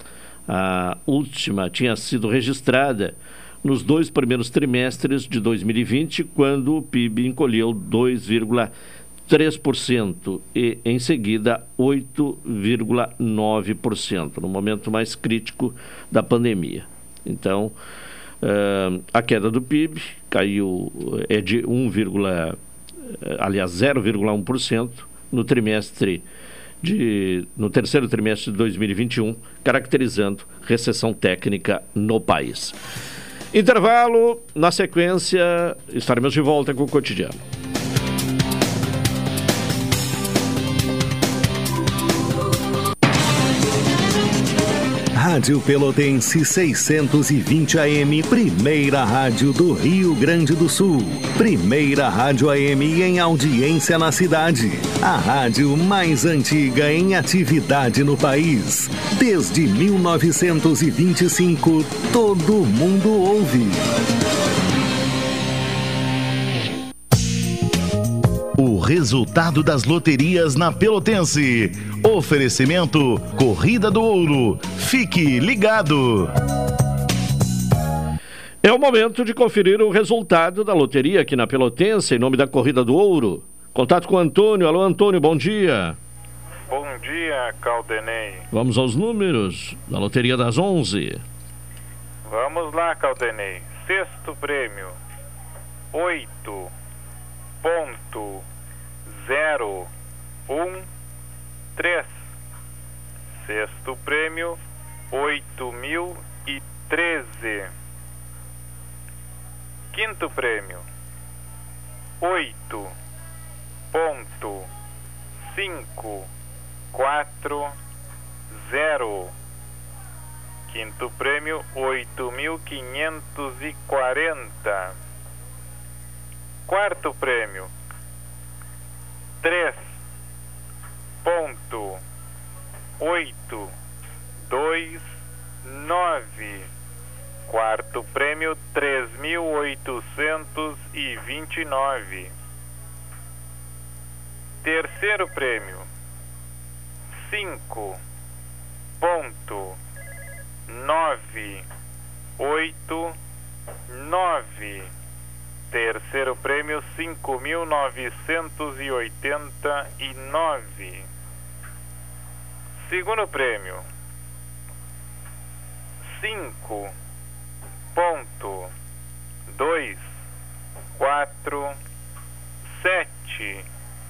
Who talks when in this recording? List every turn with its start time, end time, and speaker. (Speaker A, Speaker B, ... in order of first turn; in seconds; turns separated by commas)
Speaker A: 0.5-8.7, Speaker A: 9.3-17.7, Speaker A: 18.4-22.6, Speaker A: 23.2-26.2, Speaker A: 26.8-32.7, Speaker A: 33.5-37.4, Speaker B: 45.1-63.9, Speaker C: 68.6-76.3, Speaker A: 78.6-86.0, Speaker D: 86.7-88.4, Speaker A: 88.5-91.2, Speaker D: 92.3-94.9, Speaker D: 95.9-96.7, Speaker D: 97.6-98.4, Speaker D: 99.1-99.9, Speaker D: 100.5-100.9, Speaker D: 101.8-102.2, Speaker D: 103.4-104.6, Speaker D: 105.1-107.7, Speaker D: 109.9-110.8, Speaker D: 112.2-112.9, Speaker D: 113.9-114.7, Speaker D: 115.5-116.3, Speaker D: 116.9-117.7, Speaker D: 118.6-119.3, Speaker D: 120.7-124.9, Speaker D: 126.7-127.7, Speaker D: 129.4-129.8, Speaker D: 131.2-132.0, Speaker D: 133.0-133.7, Speaker D: 134.5-135.0, Speaker D: 135.6-136.7, Speaker D: 137.5-142.3, Speaker D: 144.6-145.8, Speaker D: 147.2-148.0, Speaker D: 149.0-149.8, Speaker D: 150.7-151.6, Speaker D: 152.4-153.1, Speaker D: 153.9-154.9, Speaker D: 155.7-161.1, Speaker D: 162.8-163.8, Speaker D: 166.1-166.9, Speaker D: 167.9-168.7, Speaker D: 169.5-170.1, Speaker D: 171.0-171.8, Speaker D: 172.7-173.6